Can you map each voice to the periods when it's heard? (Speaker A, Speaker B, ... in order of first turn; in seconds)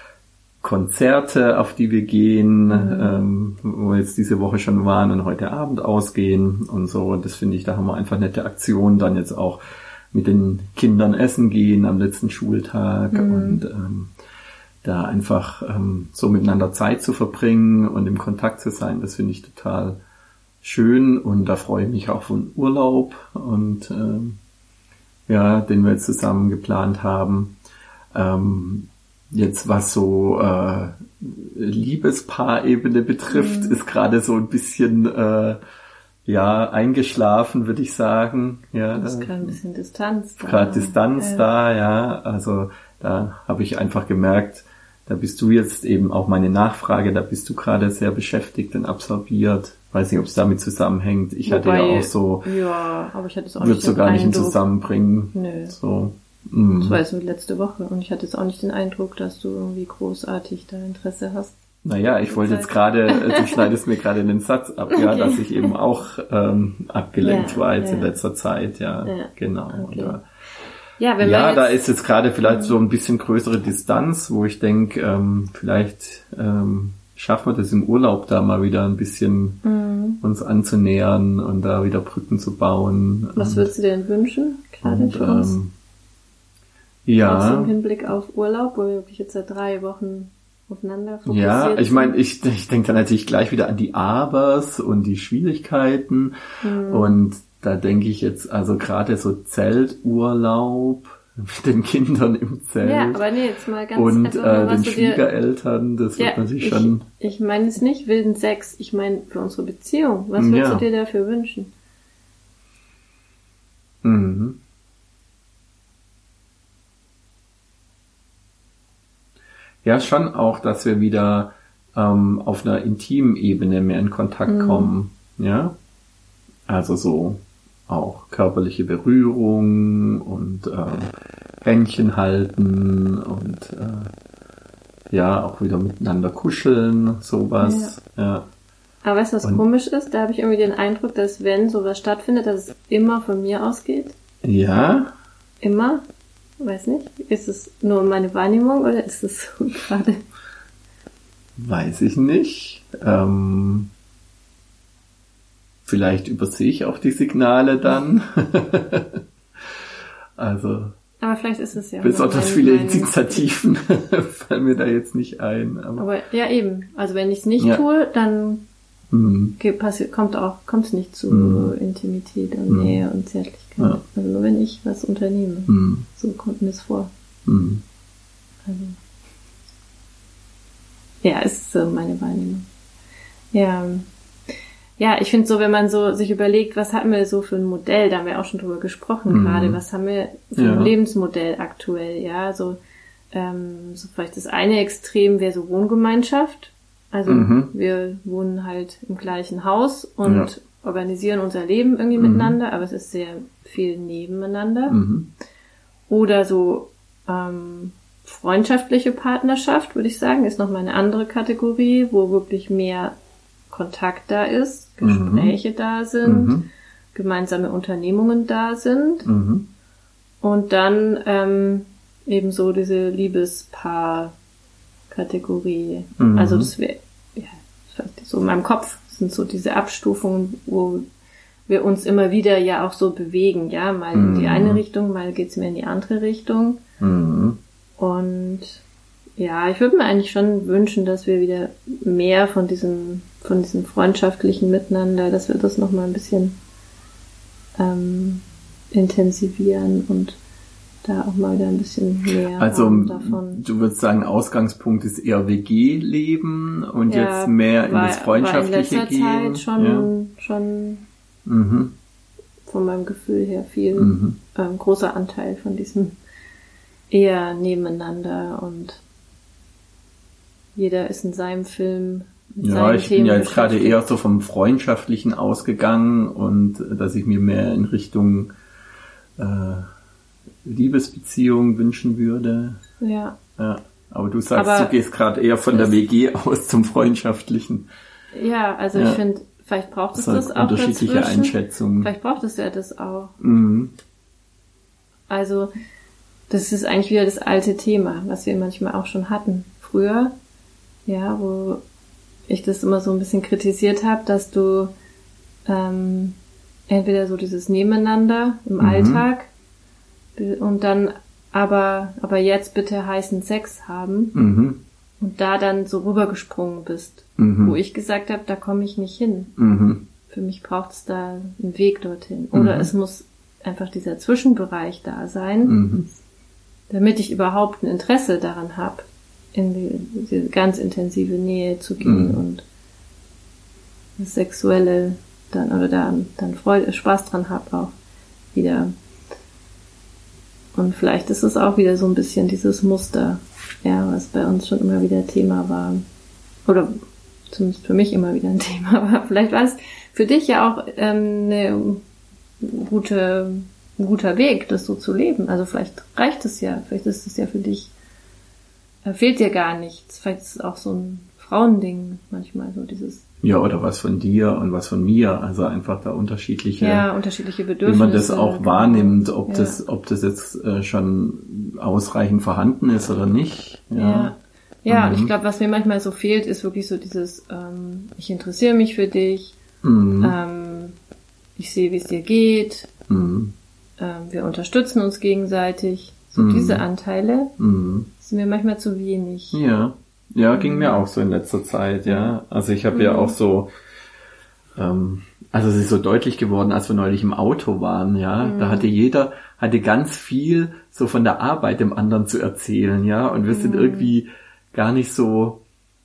Speaker A: 0.6-9.6, 10.1-14.1, 14.8-20.0, 20.6-24.4, 25.3-27.6, 28.1-35.6, 36.2-39.6, 40.4-52.5, 53.6-57.0, 61.8-70.2, 71.2-79.6, 80.2-83.7, 84.8-85.7, 87.0-87.7, 91.2-96.3, 96.9-103.2, 103.9-107.0, 110.3-110.8, 114.0-114.6, 119.8-125.8, 126.7-134.1, 135.1-138.5, 144.4-145.1, 151.6-153.9, 155.8-159.2, 160.4-160.9, 162.0-166.1, 169.1-169.6, 171.3-171.7, 172.7-173.0, 175.7-176.1, 177.4-177.8, 189.3-189.8, 190.5-190.9, 197.3-197.7, 200.2-200.5, 202.2-202.6, 204.9-205.3, 215.0-215.5, 216.2-216.7, 219.2-219.7, 226.2-226.7, 234.1-234.8, 237.0-237.6, 252.5-260.1, 261.4-261.9, 263.9-264.4, 272.6-278.5, 279.4-279.9, 280.6-282.8, 283.6-287.9, 288.9-289.2, 290.1-292.1, 293.4-293.9, 308.8-309.2, 314.3-314.8, 317.4-317.8, 319.6-320.0, 322.5-322.9, 325.6-326.1, 332.0-332.4, 363.4-367.1, 367.8-374.3, 374.9-375.3, 379.8-380.4, 383.1-383.5, 386.4-386.8, 387.6-388.1, 389.5-393.7, 394.8-405.6
Speaker B: 2.7-3.2, 13.1-13.6, 33.3-33.8, 38.9-41.5, 51.4-54.6, 55.3-55.7, 56.8-61.5, 62.3-63.7, 64.9-65.7, 67.2-68.1, 69.0-70.2, 71.0-71.8, 72.5-72.7, 79.6-80.2, 83.3-85.5, 87.2-92.2, 96.6-97.2, 102.8-105.3, 106.2-111.7, 124.5-124.9, 137.6-137.9, 139.0-144.2, 145.6-146.0, 146.6-150.2, 161.2-163.4, 166.0-168.6, 169.6-177.1, 178.7-179.0, 181.2-182.7, 183.5-184.1, 185.0-192.8, 193.3-205.0, 206.1-213.1, 213.7-216.6, 217.1-219.3, 220.4-224.3, 225.1-231.1, 231.7-236.8, 238.0-238.8, 239.4-246.6, 247.8-250.4, 251.0-253.6, 257.1-261.0, 262.7-266.2, 267.1-269.0, 270.8-274.1, 283.0-283.4, 284.5-284.9, 288.3-293.3, 295.3-295.7, 296.5-300.3, 301.1-301.8, 302.5-304.9, 305.6-306.4, 306.9-309.5, 310.4-314.3, 315.2-319.5, 320.3-325.8, 326.9-332.6, 334.2-337.9, 338.5-338.9, 340.7-346.0, 346.6-346.9, 347.5-352.0, 352.6-357.9, 359.0-363.2, 366.8-369.8, 373.9-379.6, 380.2-380.9, 381.6-382.9, 384.0-387.5, 388.2-389.6, 390.5-391.0, 392.1-392.3, 392.9-393.3, 398.4-398.9, 403.5-404.1